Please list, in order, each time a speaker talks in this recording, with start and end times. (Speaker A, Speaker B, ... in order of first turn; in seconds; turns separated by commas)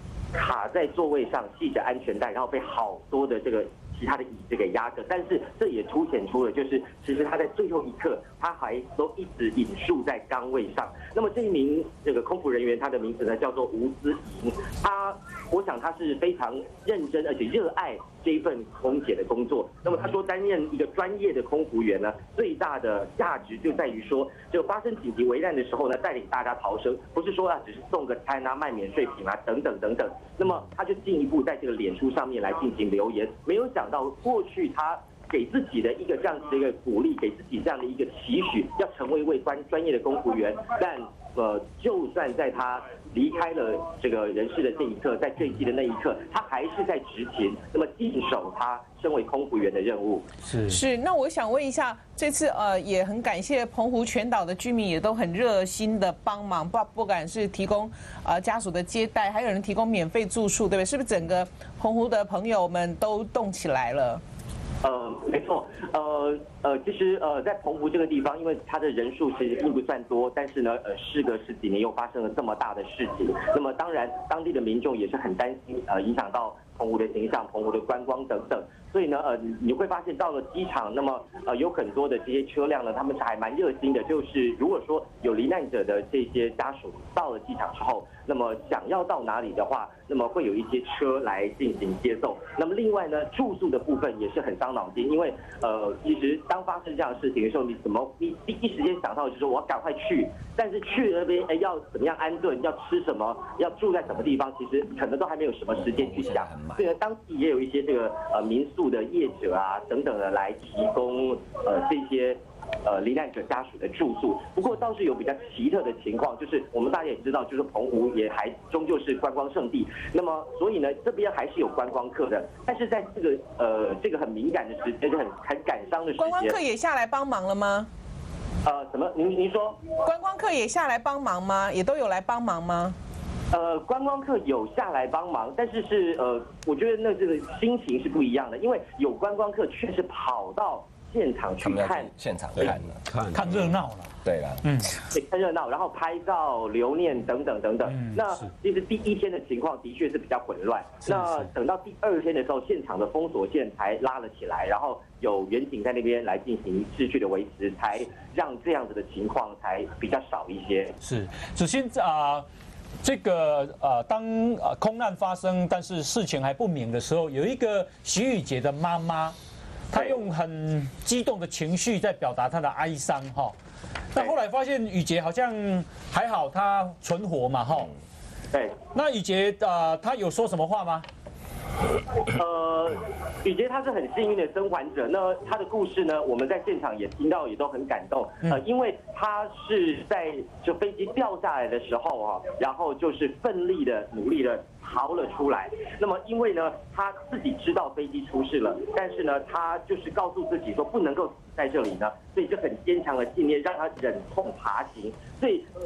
Speaker A: 0.3-50.3, Speaker B: 50.4-50.8, Speaker C: 50.7-64.2, Speaker A: 64.8-126.6, Speaker D: 106.0-106.9, Speaker C: 126.2-127.9, Speaker A: 128.7-129.9, Speaker C: 130.0-133.0, Speaker A: 133.5-142.1, Speaker D: 141.6-143.5, Speaker B: 143.3-145.0, Speaker D: 144.2-144.6, Speaker A: 145.1-160.9, Speaker B: 147.8-148.4, Speaker B: 151.0-151.4, Speaker B: 161.0-162.5, Speaker B: 163.0-169.3, Speaker B: 169.9-173.6, Speaker B: 174.1-177.9, Speaker B: 178.9-181.1, Speaker A: 182.3-205.7